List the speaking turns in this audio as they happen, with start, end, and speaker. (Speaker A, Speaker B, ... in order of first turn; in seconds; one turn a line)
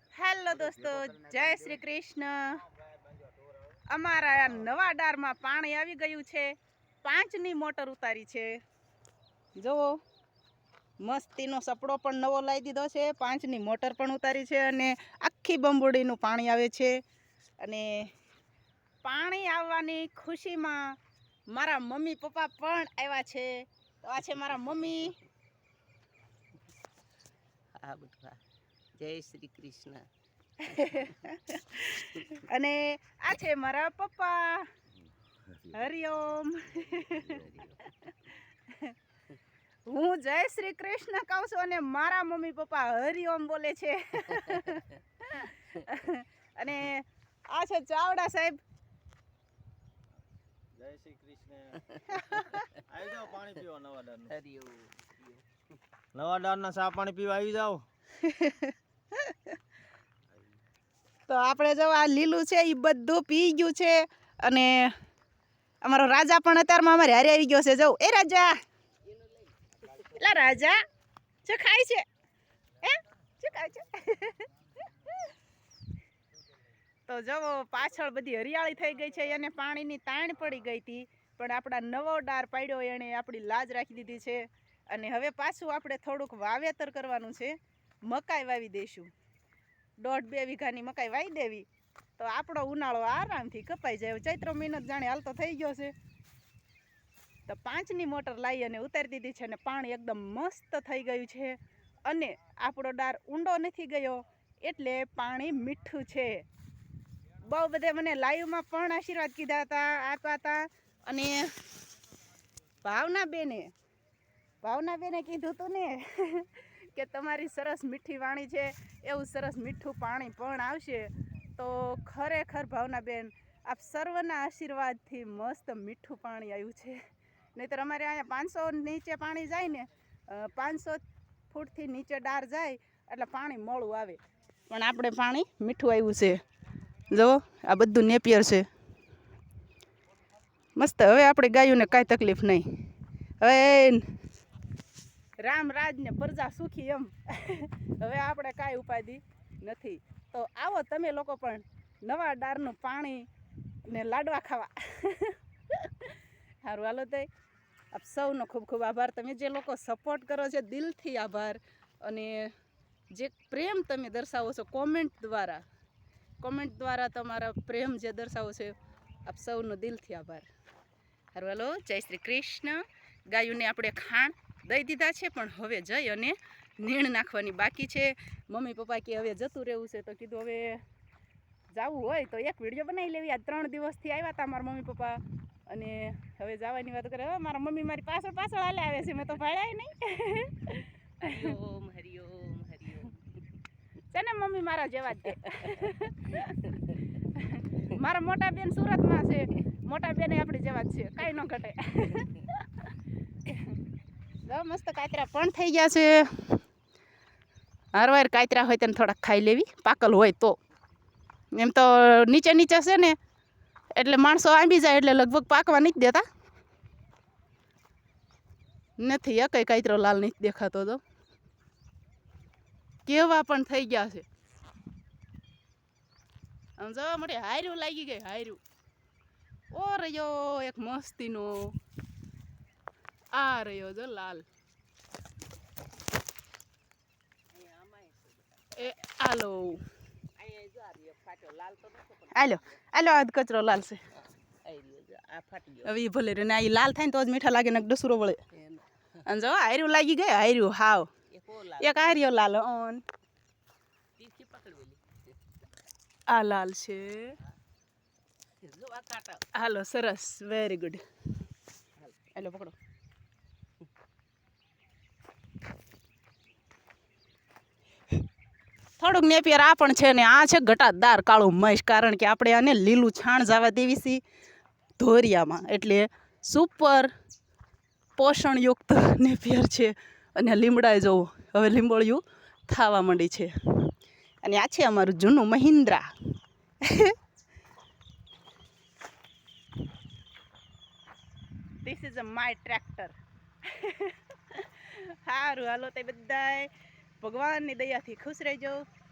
Speaker A: 0.1-2.6
Speaker B: 0.6-1.8
Speaker B: 2.5-3.8
Speaker A: 3.9-8.6
Speaker A: 9.6-10.0
Speaker A: 11.0-17.0
Speaker A: 17.6-18.1
Speaker A: 19.0-21.0
Speaker A: 21.5-25.2
Speaker C: 27.8-28.4
Speaker C: 29.0-30.1
Speaker A: 30.6-34.7
Speaker C: 30.7-31.3
Speaker A: 35.7-39.0
Speaker C: 36.7-38.0
Speaker A: 39.9-48.6
Speaker C: 44.4-44.8
Speaker B: 50.7-51.9
Speaker C: 52.0-52.8
Speaker A: 52.1-52.6
Speaker B: 52.7-54.4
Speaker C: 54.3-55.4
Speaker B: 56.1-57.8
Speaker A: 58.2-59.5
Speaker A: 61.3-64.9
Speaker A: 65.8-68.6
Speaker C: 69.1-70.4
Speaker A: 70.0-70.8
Speaker A: 71.4-72.0
Speaker A: 72.8-75.2
Speaker A: 77.1-89.1
Speaker A: 90.0-95.9
Speaker A: 97.5-106.4
Speaker A: 107.4-111.6
Speaker A: 112.8-113.7
Speaker A: 114.6-127.0
Speaker A: 127.5-134.2
Speaker A: 134.7-136.4
Speaker A: 137.1-138.7
Speaker A: 140.8-142.7
Speaker A: 143.4-144.1
Speaker A: 145.4-153.3
Speaker A: 153.9-157.3
Speaker A: 157.9-162.5
Speaker A: 163.1-165.6
Speaker A: 166.4-170.5
Speaker A: 171.3-180.8
Speaker A: 181.7-191.5
Speaker C: 191.2-193.4
Speaker A: 194.1-202.9
Speaker C: 195.5-195.9
Speaker C: 196.4-197.0
Speaker A: 203.4-203.8
Speaker A: 204.4-206.6
Speaker A: 207.9-210.6
Speaker A: 211.5-213.2
Speaker A: 213.9-216.2
Speaker A: 219.0-221.0
Speaker A: 223.1-224.2
Speaker A: 226.8-228.6
Speaker A: 229.7-231.8
Speaker A: 233.3-234.4
Speaker C: 237.5-238.9
Speaker A: 238.7-239.8
Speaker C: 240.3-242.8
Speaker A: 242.3-244.0
Speaker C: 244.2-245.9
Speaker A: 245.8-248.4
Speaker C: 248.5-248.8
Speaker A: 249.2-251.1
Speaker C: 251.3-252.2
Speaker A: 251.8-253.0
Speaker C: 254.2-255.2
Speaker A: 256.3-257.4
Speaker C: 258.6-259.4
Speaker A: 259.5-261.0
Speaker A: 262.3-262.7
Speaker A: 269.0-274.2
Speaker A: 275.0-277.1
Speaker A: 278.2-283.9
Speaker A: 284.4-286.1
Speaker A: 286.8-287.1
Speaker A: 291.8-298.8